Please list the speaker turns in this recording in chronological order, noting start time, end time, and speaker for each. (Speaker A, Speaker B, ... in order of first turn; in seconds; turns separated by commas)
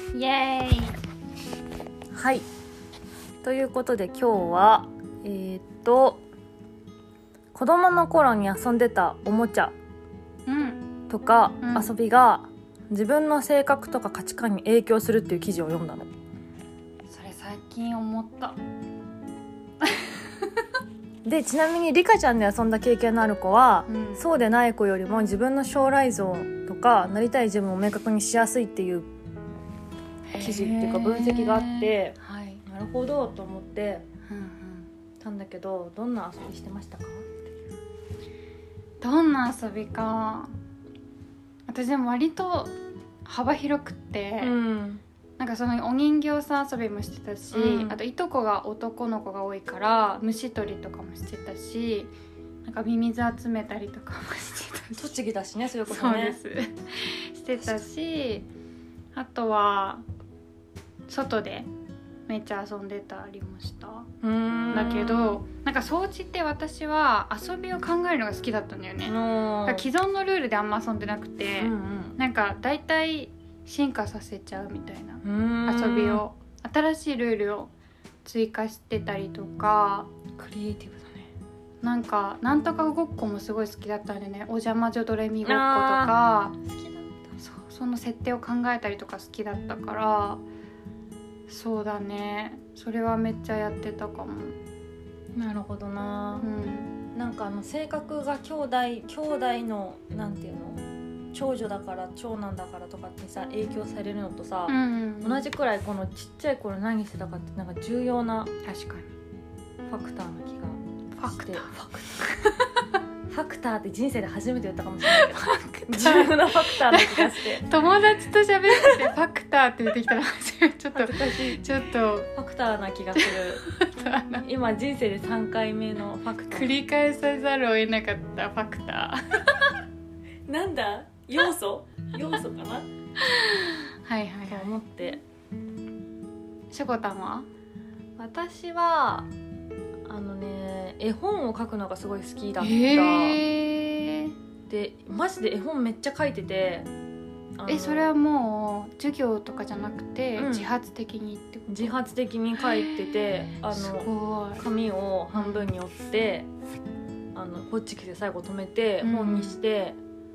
Speaker A: 0.1-0.9, Speaker B: 2.1-2.5, Speaker B: 3.4-6.2, Speaker B: 7.5-9.7, Speaker A: 10.5-10.9, Speaker B: 11.1-16.1, Speaker A: 11.6-11.9, Speaker A: 17.1-18.6, Speaker A: 19.8-20.5, Speaker B: 21.2-29.1, Speaker A: 23.9-24.3, Speaker A: 30.3-32.6, Speaker B: 30.4-34.0, Speaker A: 34.3-34.9, Speaker B: 35.2-37.6, Speaker A: 39.0-40.5, Speaker A: 41.7-42.7, Speaker A: 43.3-44.5, Speaker B: 44.4-45.0, Speaker A: 45.4-52.1, Speaker B: 47.5-48.0, Speaker A: 52.6-55.2, Speaker B: 55.0-56.4, Speaker A: 55.9-58.5, Speaker B: 57.6-57.8, Speaker A: 59.1-60.0, Speaker A: 61.1-61.7, Speaker A: 62.3-64.1, Speaker B: 64.2-65.4, Speaker A: 64.7-77.7, Speaker B: 69.0-69.9, Speaker B: 71.6-72.2, Speaker B: 75.2-76.2, Speaker A: 78.2-80.1, Speaker B: 80.4-81.3, Speaker A: 81.8-86.5, Speaker B: 85.5-87.3, Speaker A: 87.4-90.4, Speaker A: 91.5-94.6, Speaker B: 95.3-96.5, Speaker A: 96.4-97.0, Speaker B: 97.1-108.5, Speaker A: 104.7-105.5, Speaker A: 108.6-109.1, Speaker B: 109.9-112.1, Speaker A: 111.2-112.7, Speaker B: 113.3-117.7, Speaker A: 115.0-122.3, Speaker B: 118.7-119.1, Speaker B: 121.0-121.6, Speaker B: 122.3-123.6, Speaker A: 123.2-124.5, Speaker B: 124.4-126.8, Speaker A: 126.5-129.8, Speaker B: 130.5-132.9, Speaker A: 133.2-134.7, Speaker B: 134.5-135.2, Speaker A: 136.7-137.5, Speaker B: 138.2-139.3, Speaker B: 140.1-143.4, Speaker A: 142.6-144.3, Speaker B: 144.7-146.9, Speaker B: 147.6-148.1, Speaker A: 147.7-152.0, Speaker B: 150.4-150.7, Speaker B: 151.7-156.5, Speaker A: 152.5-154.7, Speaker A: 155.3-155.7, Speaker B: 157.3-160.0, Speaker A: 159.0-159.6